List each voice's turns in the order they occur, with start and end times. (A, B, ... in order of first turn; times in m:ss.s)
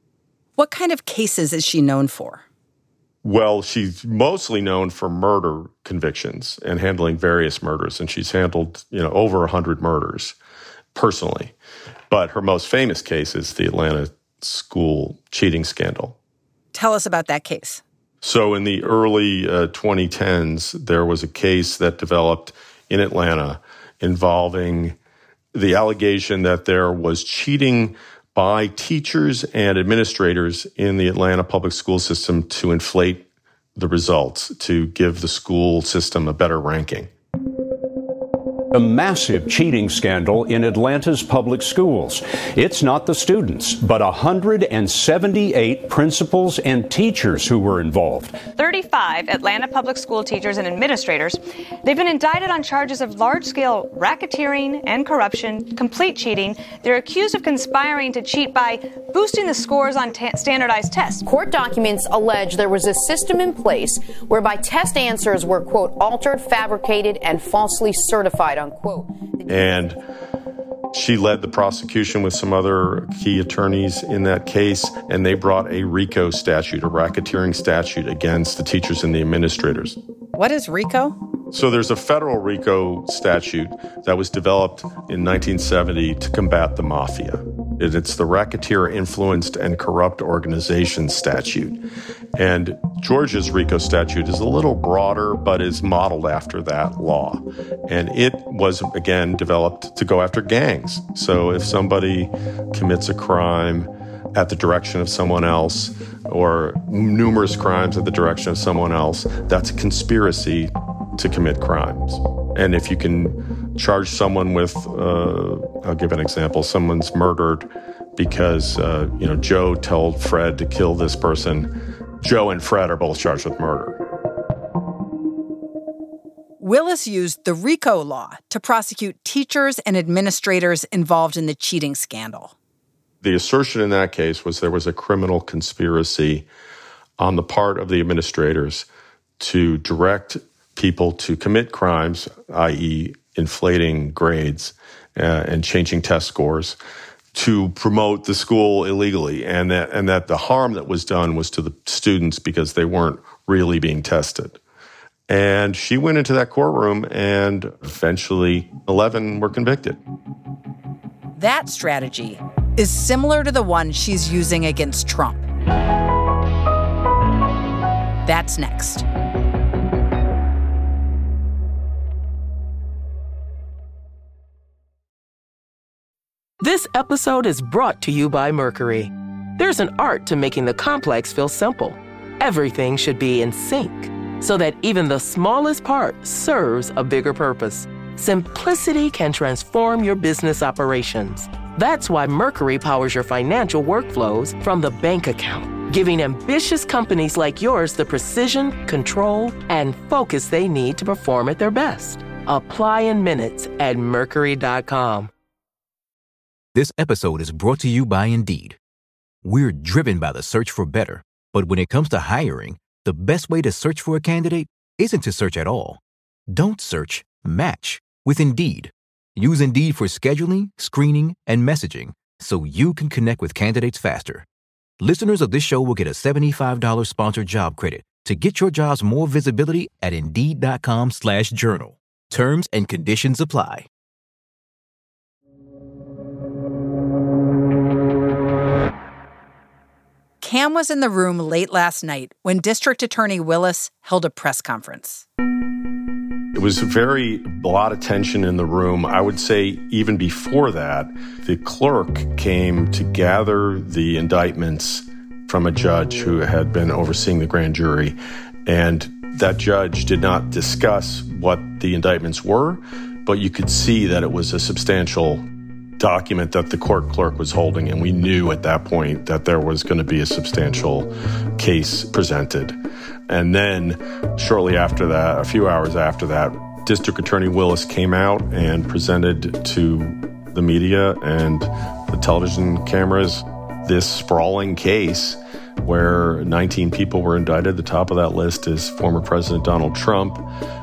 0:00.6-0:02.4 A
0:03.2-0:10.3 B
0:10.9-0:11.5 B
0:12.1-0:16.2 B
0:16.7-0:17.8 A
0:18.2-0:25.0 B
0:25.5-0:37.1 B
0:38.7-0:48.4 C
0:48.6-1:01.2 D
1:01.2-1:09.5 E
1:09.5-1:10.0 B
1:10.9-1:20.0 B
1:20.4-1:21.1 A
1:21.5-1:31.8 B
1:32.4-2:04.0 B
2:06.6-2:12.5 A
2:13.2-2:16.5 B
2:17.2-2:18.9 B
2:19.4-2:26.8 B
2:27.3-2:34.6 B
2:35.3-2:40.0 B
2:41.4-2:45.4 A
2:48.2-2:49.0 A
2:56.6-3:25.3 F
3:26.7-3:28.8 G
3:29.4-3:36.0 G
3:36.5-3:44.4 G
3:45.0-3:53.9 G
4:00.4-4:05.2 A
4:06.5-4:25.4 B
4:26.0-4:32.8 B
4:33.3-4:50.4 B